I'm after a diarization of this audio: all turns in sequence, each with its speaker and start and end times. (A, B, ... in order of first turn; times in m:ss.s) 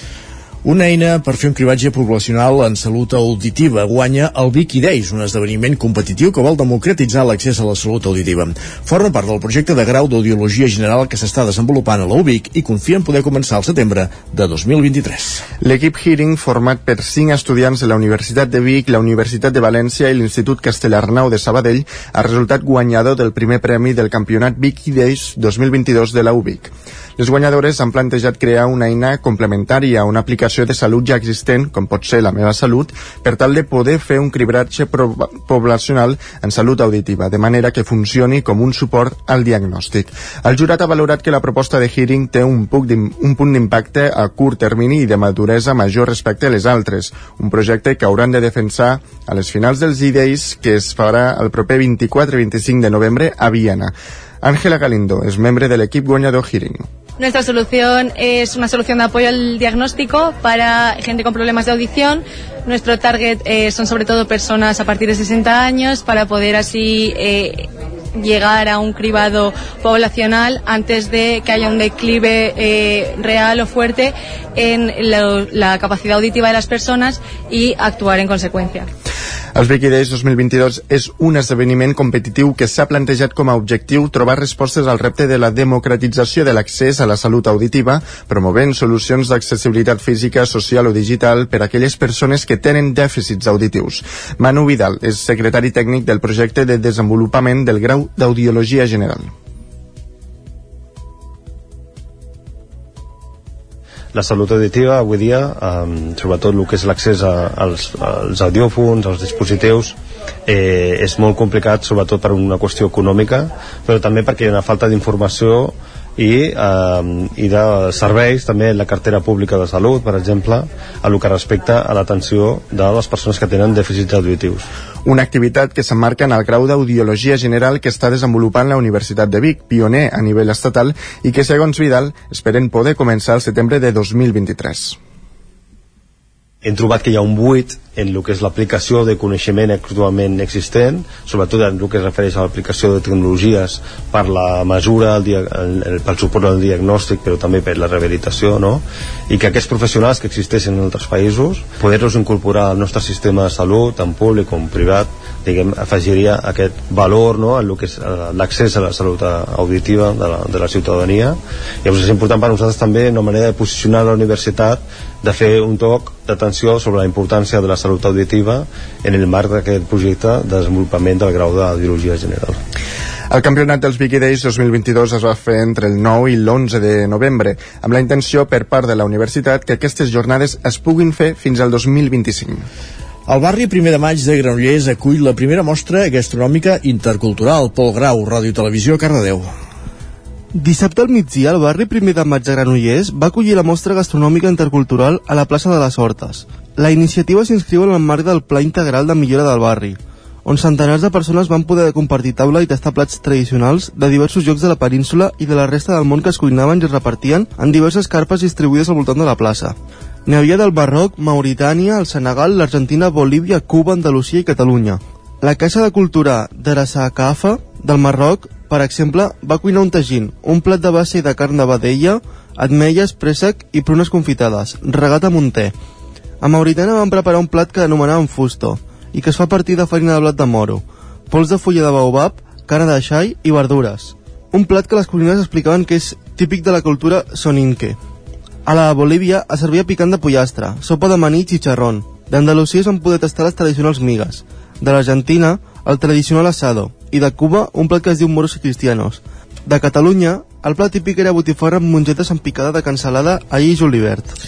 0:00.6-0:15.4 A
0:15.6-0:56.9 B
0:57.2-1:18.9 C
1:19.5-1:39.3 B
1:44.1-1:49.9 D
1:50.5-2:04.6 D
2:05.0-2:15.0 B
2:16.6-2:52.6 D
2:53.3-3:02.7 B
3:03.3-3:09.5 A
3:10.5-3:45.7 E
3:46.4-3:58.0 E
3:58.6-4:14.3 E